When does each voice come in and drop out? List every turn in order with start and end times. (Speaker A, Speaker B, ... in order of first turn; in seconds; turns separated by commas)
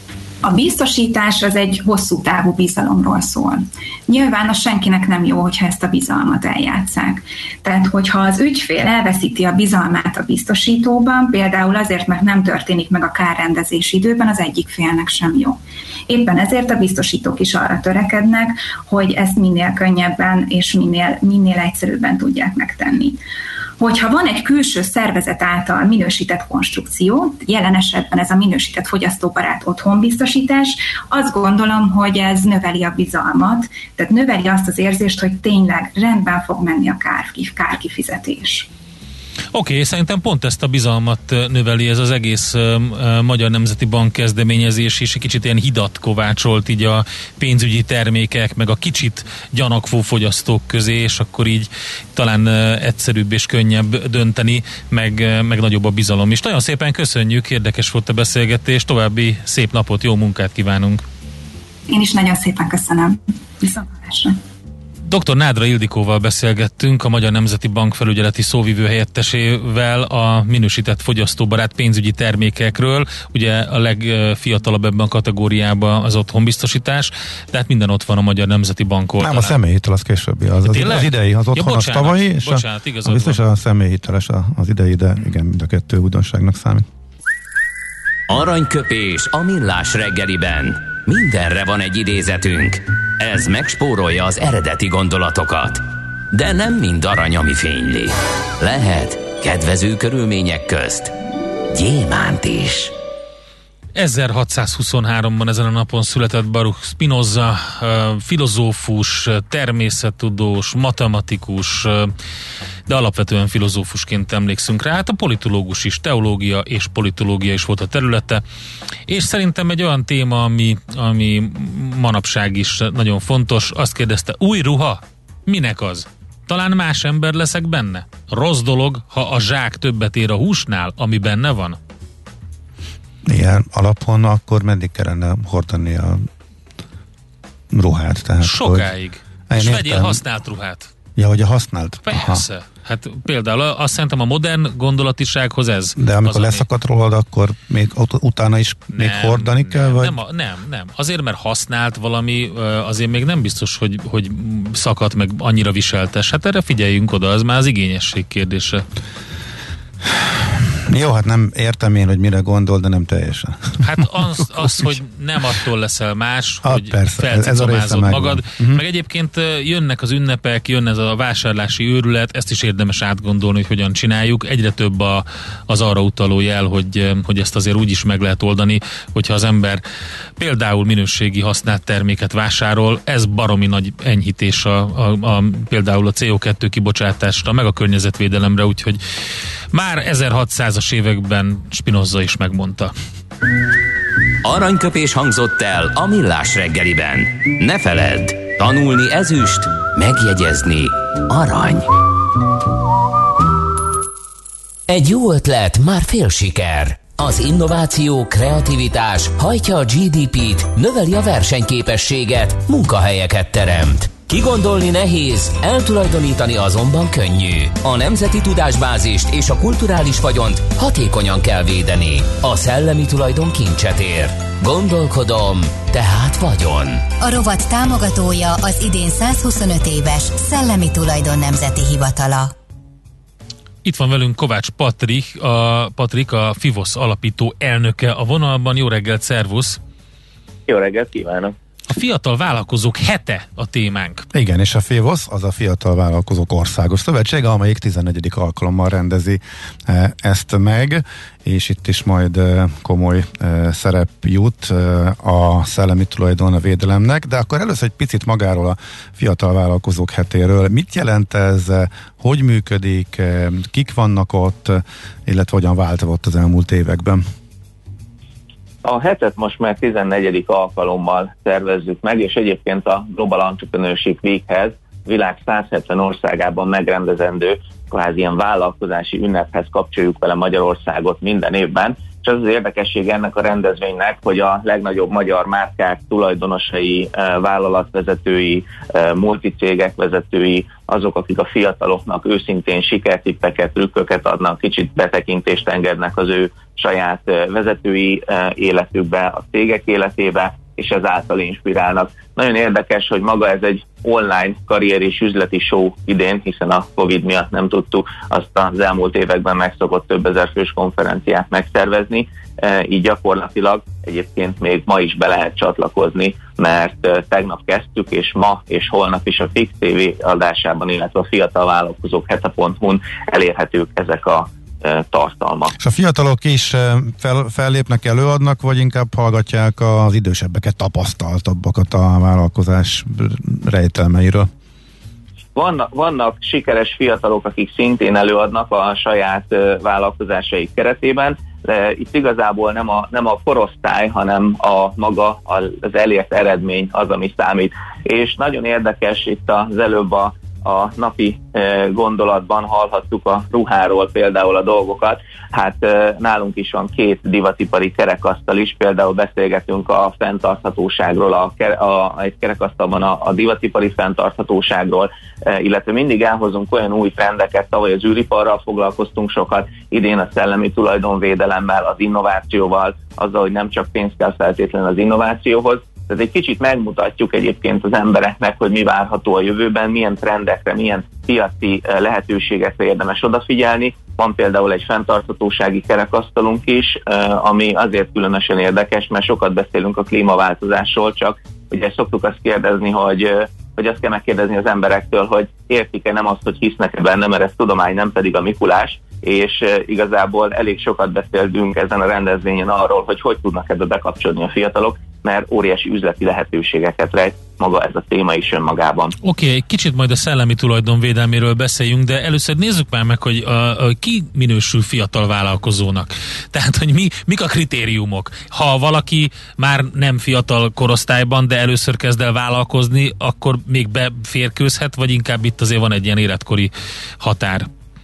Speaker A: 0.4-23.2, Speaker A: 23.8-38.7, Speaker B: 39.5-61.0, Speaker A: 61.9-64.4, Speaker B: 65.1-79.5, Speaker C: 79.2-86.9, Speaker B: 80.7-83.4, Speaker D: 88.3-101.1, Speaker D: 101.7-102.9, Speaker B: 104.0-112.1, Speaker B: 112.9-118.4, Speaker B: 119.1-131.8, Speaker C: 133.2-136.3, Speaker C: 137.7-138.9, Speaker B: 138.4-140.9, Speaker C: 139.5-140.2, Speaker C: 141.2-142.4, Speaker B: 142.1-146.7, Speaker C: 146.0-150.2, Speaker B: 149.0-158.8, Speaker C: 160.1-164.8, Speaker B: 163.8-179.8, Speaker C: 166.6-168.8, Speaker B: 180.4-189.0, Speaker B: 189.7-192.9, Speaker D: 194.4-201.9, Speaker D: 204.9-227.1, Speaker E: 227.2-232.5, Speaker B: 233.8-239.8, Speaker F: 240.7-241.6, Speaker B: 241.9-244.3, Speaker C: 244.3-267.2, Speaker F: 268.8-325.7, Speaker C: 325.8-334.5, Speaker F: 335.6-409.1, Speaker B: 409.2-427.7